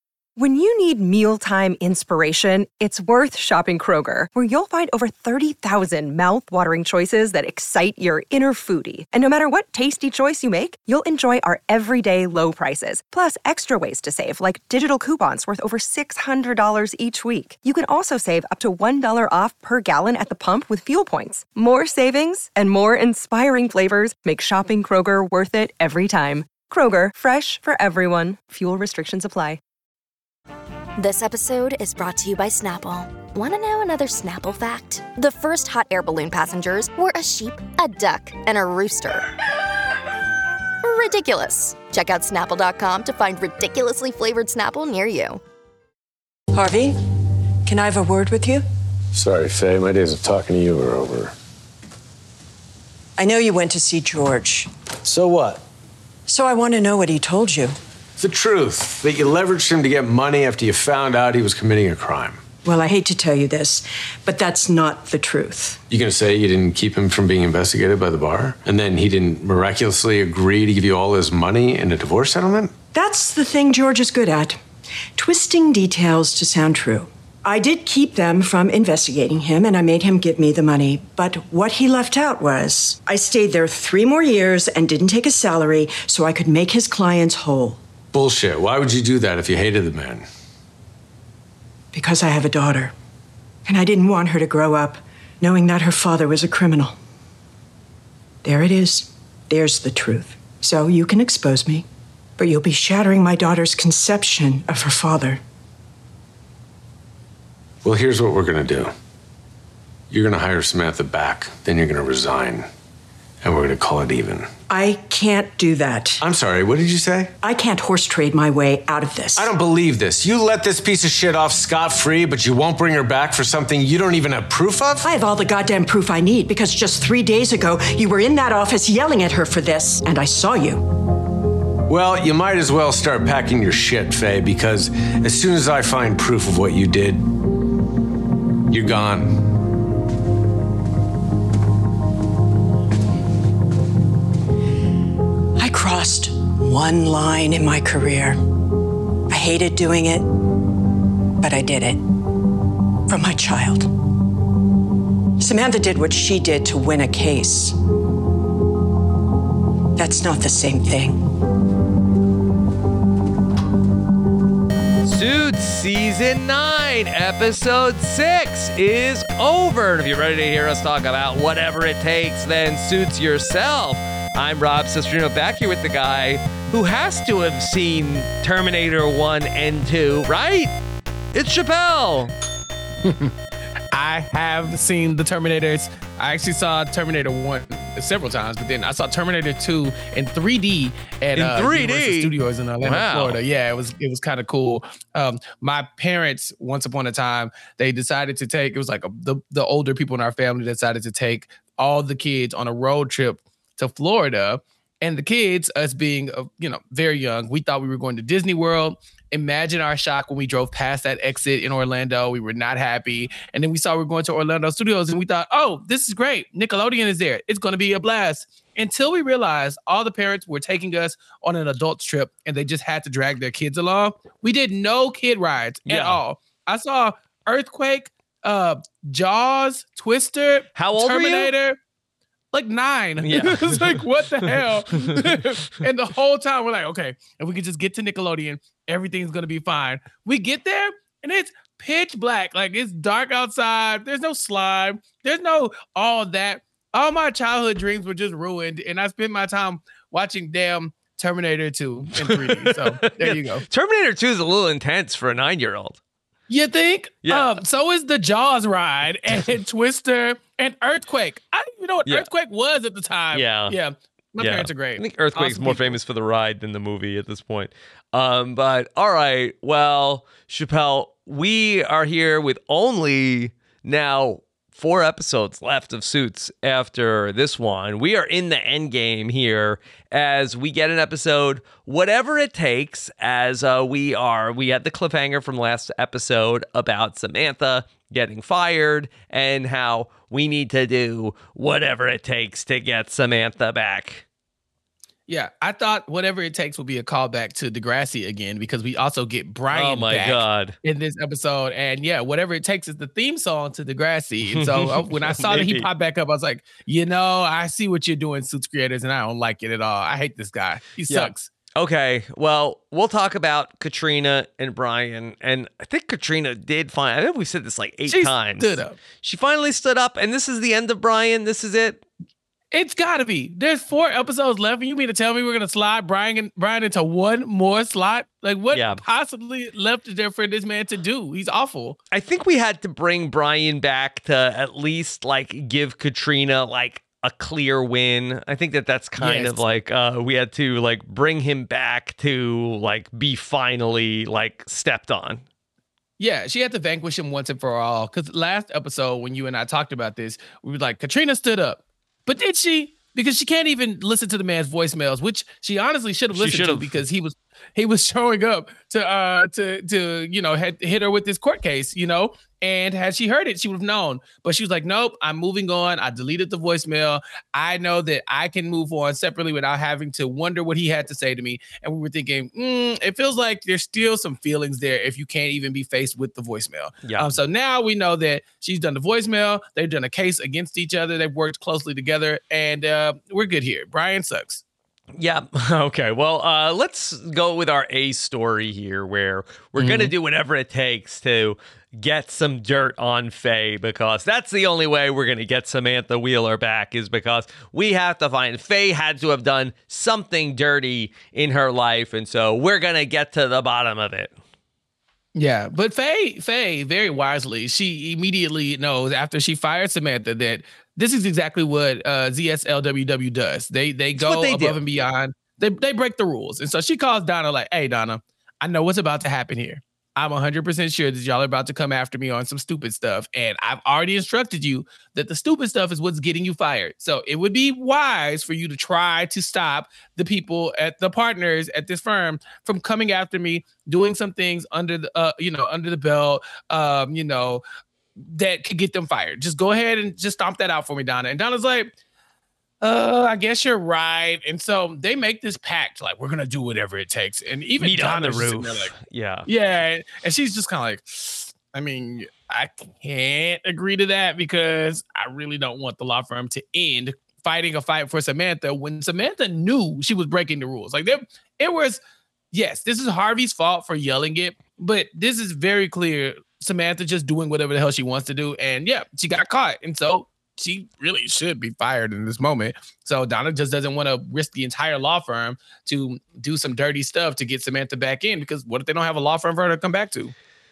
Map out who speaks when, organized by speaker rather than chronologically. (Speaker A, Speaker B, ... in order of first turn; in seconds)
Speaker A: 0.4-29.6
Speaker B: 31.0-39.3, 40.8-45.4
Speaker C: 46.5-47.0, 47.6-48.7, 53.2-54.7, 56.3-57.8, 62.6-65.8, 72.9-74.6, 75.2-87.8, 91.9-92.9, 93.7-97.0, 98.4-101.9, 102.4-105.4, 114.7-116.2, 117.4-119.5, 125.0-130.8, 145.6-148.4, 149.3-150.3, 151.4-152.1, 153.1-153.9, 155.4-157.8, 160.0-161.3
Speaker D: 49.1-51.3, 55.0-55.6, 58.2-62.4, 65.9-72.7, 88.1-90.3, 107.8-108.9, 110.1-112.7, 113.4-114.5, 116.2-117.3, 119.4-125.0, 131.9-137.3, 138.7-139.4
Speaker E: 165.0-180.7, 181.3-182.3, 191.3-193.4, 225.9-226.2, 230.8-231.5, 233.2-235.5, 252.2-256.0, 257.2-257.6, 263.3-263.8, 264.4-294.2, 299.7-300.8, 304.5-305.9, 311.1-322.0, 328.7-329.0, 332.1-345.4, 356.3-356.9, 377.0-377.3, 385.2-404.3, 414.2-414.8, 447.8-449.5
Speaker F: 183.0-183.3, 183.9-231.8, 232.5-253.7, 256.5-266.0, 295.3-311.5, 318.1-319.0, 322.7-332.0, 339.2-339.6, 346.2-384.6, 389.8-390.1, 405.4-437.6, 438.2-441.9, 442.8-448.9, 449.5-462.0, 462.5-480.3